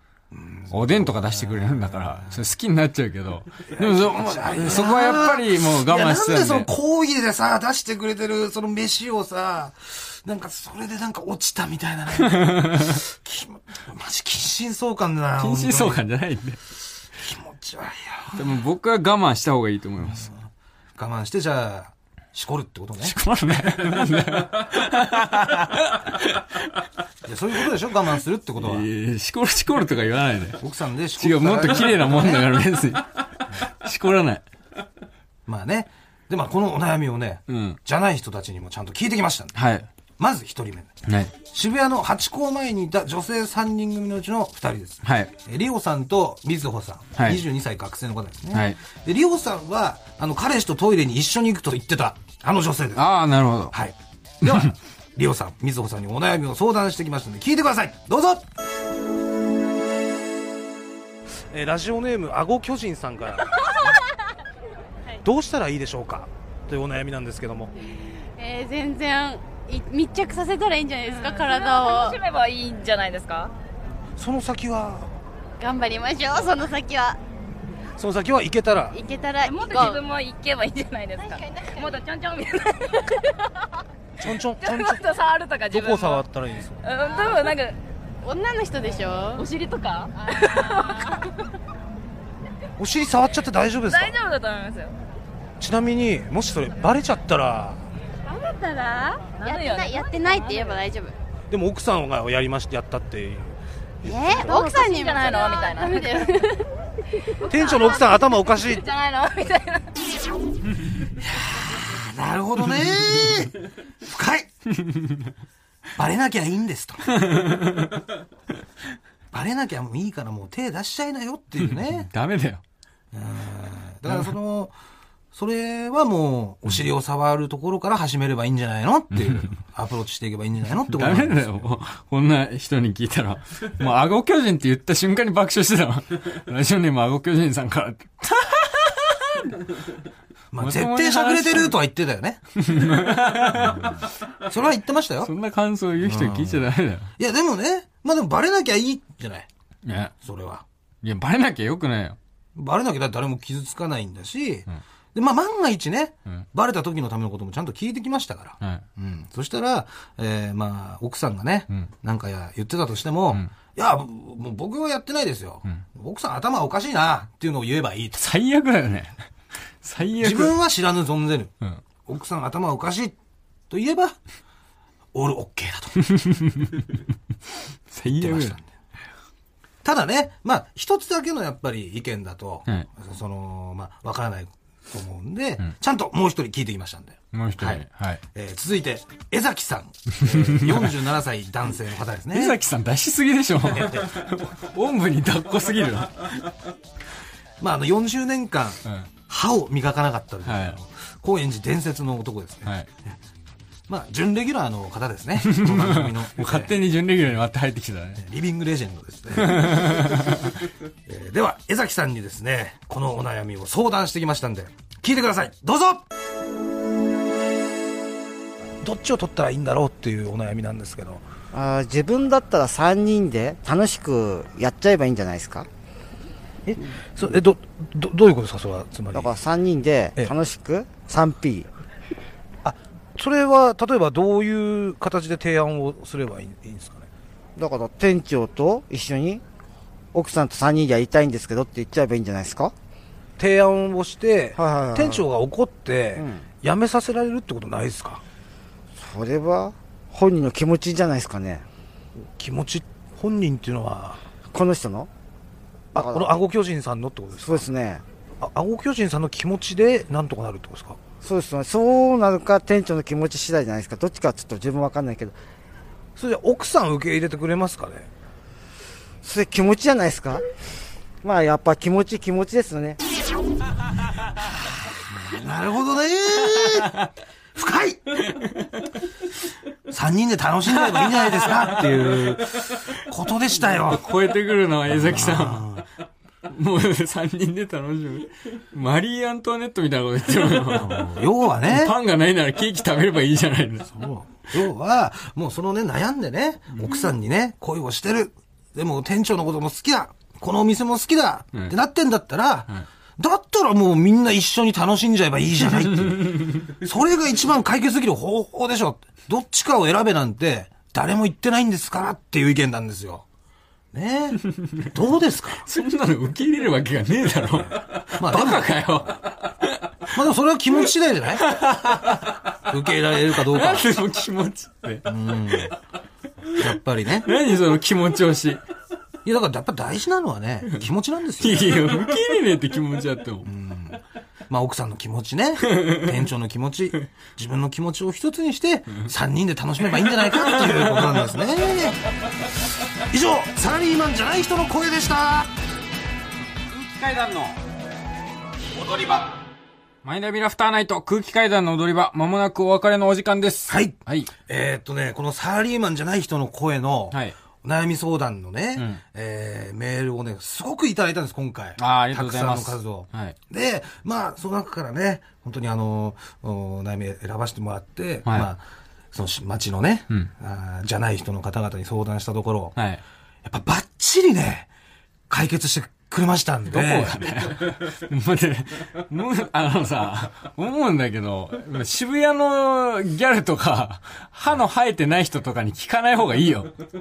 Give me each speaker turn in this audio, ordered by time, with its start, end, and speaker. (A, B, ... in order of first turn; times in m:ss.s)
0:00.3-0:02.4 A
0:00.7-0:06.7 B
0:03.7-0:16.0 A
0:12.2-0:13.0 B
0:15.4-0:16.6 B
0:17.2-0:18.4 A
0:18.3-0:20.3 B
0:20.9-0:23.2 A
0:23.0-0:26.9 B
0:27.2-0:28.9 A
0:28.6-0:30.6 B
0:30.6-0:32.6 A
0:31.2-0:34.4 B
0:35.5-0:39.6 A
0:37.5-0:37.8 B
0:39.5-0:39.9 B
0:40.2-0:53.1 A
0:41.0-0:41.3 B
0:45.0-0:45.3 B
0:47.2-0:47.4 B
0:48.5-0:48.8 B
0:52.9-0:53.8 B
0:53.7-0:58.5 A
1:01.5-1:03.9 A
1:05.2-1:07.7 A
1:08.4-1:12.2 C
1:11.2-1:13.5 D
1:14.2-1:15.1 A
1:15.6-1:17.2 C
1:18.0-1:19.0 A
1:18.9-1:20.0 C
1:19.4-1:23.4 D
1:24.2-1:25.0 A
1:24.6-1:26.2 D
1:25.7-1:26.8 A
1:26.8-1:27.8 D
1:28.2-1:29.4 C
1:29.3-1:31.3 D
1:32.8-1:34.2 A
1:33.8-1:34.9 D
1:35.6-1:37.8 A
1:38.3-1:40.8 D
1:39.2-1:41.1 C
1:41.5-1:43.6 A
1:44.0-1:46.7 C
1:44.1-1:46.5 D
1:47.4-1:49.9 D
1:47.5-1:48.8 A
1:51.1-1:54.5 A
1:54.7-1:55.3 B
1:56.0-1:57.5 A
1:57.2-1:58.0 B
1:59.3-2:02.1 A
2:01.6-2:02.6 B
2:03.1-2:04.7 A
2:05.3-2:11.6 A
2:10.9-2:19.6 B
2:20.5-2:22.4 A
2:20.6-2:21.8 B
2:22.5-2:24.0 B
2:23.5-2:25.3 A
2:25.2-2:27.1 B
2:26.0-2:26.6 A
2:27.2-2:29.5 A
2:29.8-2:30.1 B
2:30.2-2:30.6 A
2:31.0-2:32.2 B
2:32.5-2:48.3 A
2:48.2-2:49.2 B
2:49.8-2:50.5 B
2:50.2-2:51.5 A
2:52.0-2:53.1 A
2:53.7-2:54.2 A
2:55.1-2:56.0 A
2:56.0-2:57.0 B
2:57.9-2:58.6 B
2:58.1-2:58.7 A
2:59.8-3:12.6 A
3:07.3-3:08.2 B
3:10.2-3:11.0 B
3:12.3-3:16.3 B
3:13.6-3:14.3 A
3:17.6-3:23.1 A
3:20.4-3:20.8 B
3:23.9-3:26.7 A
3:25.4-3:28.2 B
3:28.2-3:30.5 A
3:29.3-3:30.6 B
3:31.0-3:36.0 A
3:38.8-3:41.2 A
3:41.5-3:45.7 E
3:46.6-3:49.4 A
3:49.1-3:51.7 E
3:52.6-3:57.1 A
3:57.6-3:59.4 E
4:00.1-4:02.7 E
4:03.4-4:08.2 A
4:04.6-4:05.2 E
4:06.2-4:06.4 E
4:09.0-4:11.6 E
4:12.4-4:14.2 A
4:14.5-4:15.1 E
4:15.9-4:17.7 A
4:16.0-4:16.3 E
4:17.4-4:18.0 E
4:18.4-4:21.0 A
4:21.2-4:25.4 E
4:26.2-4:28.1 A
4:29.2-4:30.4 E
4:31.2-4:33.0 E
4:35.2-4:37.0 A
4:36.7-4:37.1 B
4:37.5-4:38.2 A
4:38.3-4:38.9 B
4:39.9-4:44.1 A
4:40.9-4:42.4 B
4:43.7-4:45.8 B
4:44.9-4:45.8 A
4:46.4-4:54.0 B
4:50.7-4:51.9 A
4:53.9-5:13.2 A
5:13.9-5:15.6 A
5:14.5-5:14.9 B
5:15.6-5:20.1 B
5:18.1-5:18.8 A
5:20.1-5:21.6 A
5:21.4-5:22.5 B
5:22.1-5:23.9 A
5:23.3-5:25.1 B
5:25.0-5:25.7 A
5:26.5-5:27.3 A
5:27.2-5:28.6 B
5:29.2-5:31.9 A
5:31.4-5:33.5 B
5:33.4-5:42.0 A
5:35.7-5:36.1 B
5:40.4-5:41.2 B
5:42.9-5:45.5 A
5:46.7-5:47.6 B
5:48.8-5:49.2 A
5:50.0-5:54.3 B
5:53.7-6:12.8 A
5:58.8-5:59.0 B
6:01.8-6:03.3 B
6:12.8-6:13.0 B
6:13.4-6:14.7 A
6:15.3-6:17.5 A
6:16.7-6:26.7 B